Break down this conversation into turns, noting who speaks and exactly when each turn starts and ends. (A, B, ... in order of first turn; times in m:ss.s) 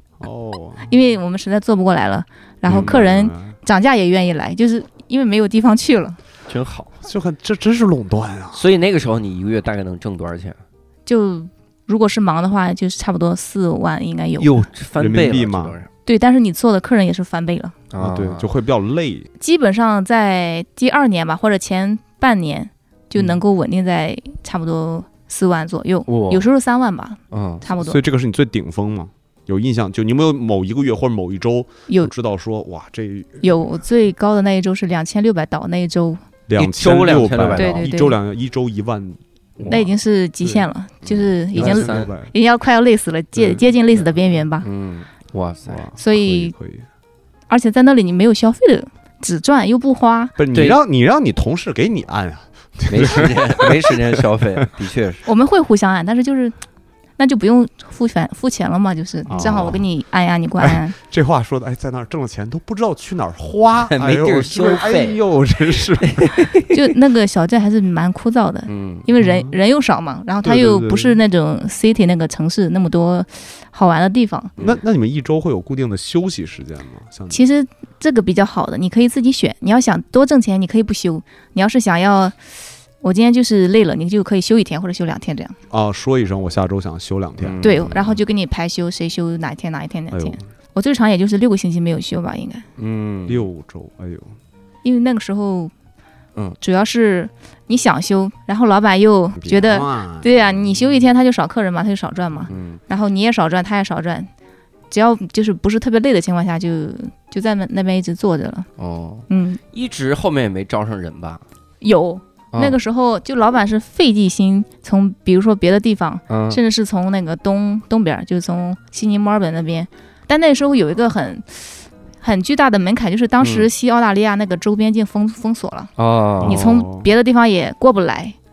0:00.2-0:00.9 A
0:00.9-0:06.2 B
0:02.7-0:03.6 A
0:06.5-0:06.9 C
0:07.0-0:08.6 A
0:08.5-0:10.6 C
0:11.1-0:14.7 B
0:14.4-0:15.9 C
0:15.0-0:15.8 A
0:16.1-0:17.8 B
0:17.9-0:18.5 C
0:18.0-0:19.3 A
0:19.4-0:28.0 B
0:26.1-0:26.5 C
0:27.3-0:27.6 C
0:27.8-0:33.6 A
0:33.4-0:36.2 B
0:36.5-0:39.9 A
0:36.6-0:37.9 C
0:37.6-0:38.2 B
0:39.7-0:44.7 B
0:40.4-0:42.3 A
0:41.2-0:42.1 C
0:43.4-0:43.6 A
0:44.6-0:45.8 C
0:45.7-0:46.8 A
0:46.0-0:46.5 B
0:47.5-0:50.3 B
0:50.4-0:54.6 A
0:50.5-0:50.8 C
0:52.9-0:55.2 C
0:55.2-0:56.6 B
0:57.2-1:01.0 B
0:59.3-0:59.8 A
1:00.6-1:06.3 A
1:03.9-1:05.2 C
1:06.0-1:06.7 C
1:06.7-1:14.5 B
1:08.7-1:09.1 C
1:09.2-1:09.6 A
1:10.4-1:11.2 A
1:14.6-1:17.4 A
1:17.3-1:22.4 B
1:23.0-1:25.6 B
1:25.7-1:27.6 A
1:27.4-1:28.1 C
1:27.6-1:32.6 B
1:30.1-1:30.4 A
1:32.8-1:33.5 C
1:33.3-1:34.3 A
1:34.8-1:35.7 B
1:36.6-1:44.3 B
1:39.4-1:40.3 A
1:42.5-1:42.8 C
1:44.9-1:48.7 B
1:48.8-1:51.4 C
1:49.3-1:49.6 B
1:51.8-2:05.9 B
1:56.3-1:56.6 C
2:03.4-2:03.7 C
2:06.0-2:06.6 C
2:06.4-2:07.1 A
2:06.4-2:08.4 B